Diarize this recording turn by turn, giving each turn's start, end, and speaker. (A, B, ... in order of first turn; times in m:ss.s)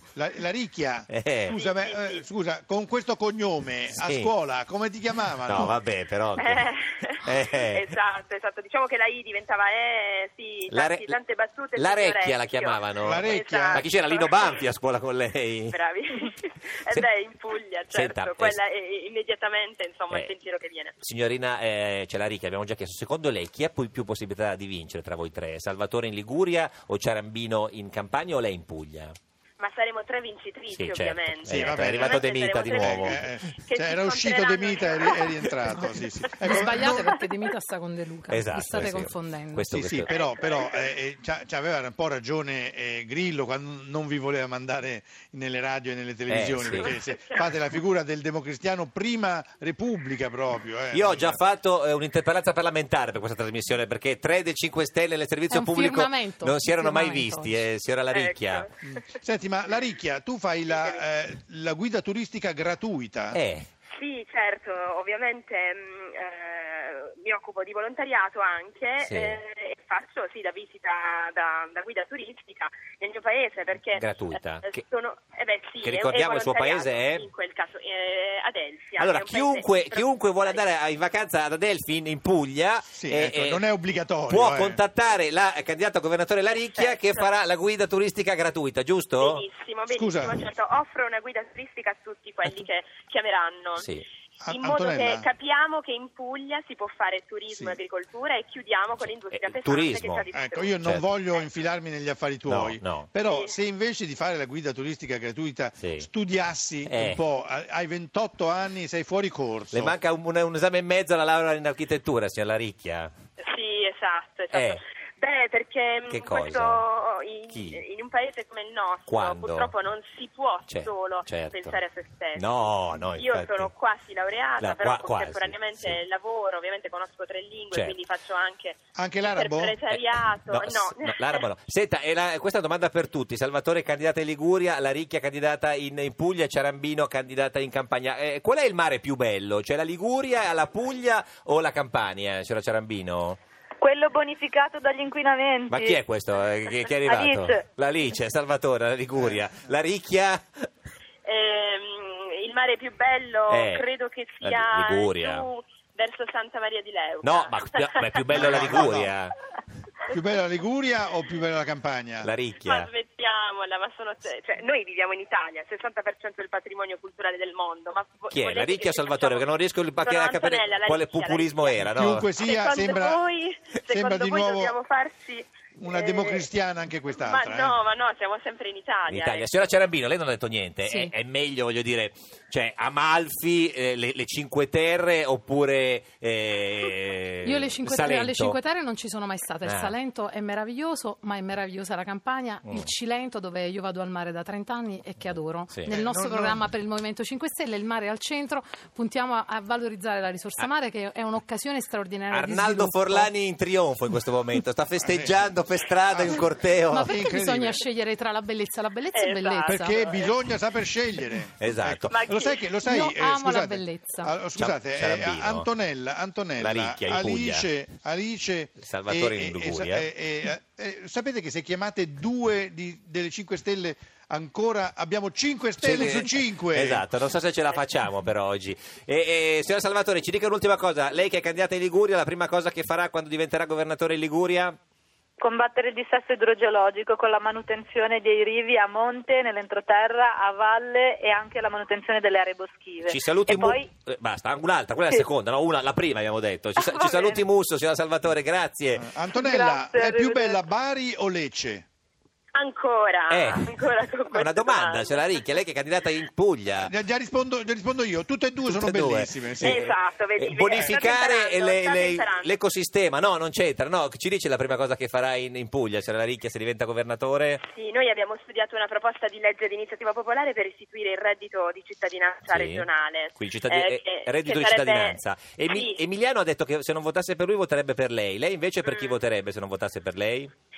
0:00.2-0:05.8 A
0:01.1-0:01.6 B
0:01.5-0:02.2 C
0:04.0-0:04.3 B
0:05.4-0:06.7 B
0:06.4-0:14.6 C
0:07.2-0:07.9 B
0:10.7-0:11.2 B
0:11.8-0:15.8 B
0:13.0-0:13.9 A
0:15.7-0:20.9 C
0:17.9-0:18.6 B
0:21.0-0:29.2 B
0:29.6-0:35.5 C
0:30.7-0:33.2 B
0:31.5-0:37.2 A
0:35.7-0:39.7 D
0:38.3-0:40.1 B
0:39.7-0:51.4 A
0:40.1-0:40.9 C
0:46.3-0:46.9 B
0:46.7-0:47.5 C
0:50.9-0:58.7 B
0:55.5-0:57.6 D
0:58.1-0:59.0 C
0:58.8-1:03.4 A
1:00.6-1:01.0 C
1:03.3-1:03.7 B
1:04.0-1:20.6 C
1:09.0-1:09.4 B
1:14.0-1:14.7 B
1:15.8-1:17.3 B
1:19.0-1:23.6 B
1:23.0-1:24.8 A
1:24.3-1:29.4 B
1:26.8-1:27.3 C
1:29.2-1:33.9 C
1:29.9-1:30.4 A
1:33.8-1:34.0 B
1:34.4-1:35.3 A
1:34.5-1:40.8 C
1:37.5-1:37.8 A
1:39.3-1:40.3 B
1:40.3-1:49.9 A
1:42.5-1:43.1 B
1:43.2-1:43.6 C
1:45.8-1:46.1 B
1:46.8-1:47.2 B
1:49.7-1:53.1 B
1:53.4-2:02.5 C
1:54.5-1:54.8 B
1:56.1-1:56.8 B
1:57.5-1:57.8 B
1:59.1-1:59.7 B
2:00.7-2:01.8 B
2:02.4-2:03.7 B
2:03.2-2:11.5 C
2:04.6-2:06.0 B
2:07.7-2:08.0 B
2:09.0-2:09.8 A
2:09.9-2:23.4 B
2:23.8-2:26.0 E
2:25.7-2:30.7 B
2:27.0-2:27.6 E
2:29.2-2:29.4 A
2:31.2-2:38.7 C
2:33.5-2:33.9 B
2:34.4-2:35.5 B
2:37.2-2:39.4 B
2:38.3-2:39.1 A
2:40.1-2:42.3 A
2:42.2-2:42.9 B
2:42.6-2:49.5 C
2:48.3-2:52.3 B
2:50.0-2:51.8 C
2:51.8-2:53.2 A
2:52.4-2:56.5 C
2:53.9-2:54.8 A
2:55.8-2:57.8 A
2:57.1-2:59.7 C
2:59.1-3:08.6 B
3:00.8-3:01.1 D
3:07.4-3:23.3 D
3:09.6-3:10.0 B
3:12.6-3:12.9 B
3:15.9-3:16.6 A
3:22.3-3:27.2 B
3:25.0-3:25.5 A
3:26.1-3:26.5 A
3:26.9-3:30.1 D
3:27.0-3:27.8 A
3:29.1-3:30.3 C
3:29.6-3:47.1 A
3:31.6-3:32.2 B
3:32.1-3:32.8 C
3:32.8-3:34.3 D
3:34.6-3:35.7 B
3:36.6-3:37.7 B
3:38.8-3:40.1 B
3:45.8-3:54.8 B
3:55.4-4:03.9 E
4:03.0-4:09.1 B
4:09.0-4:11.8 A
4:09.3-4:10.6 E
4:12.6-4:15.3 C
4:13.3-4:16.9 B
4:16.8-4:19.9 A
4:18.6-4:27.6 B
4:19.6-4:22.6 C
4:27.6-4:36.0 C
4:32.5-4:40.5 B
4:38.8-4:39.2 C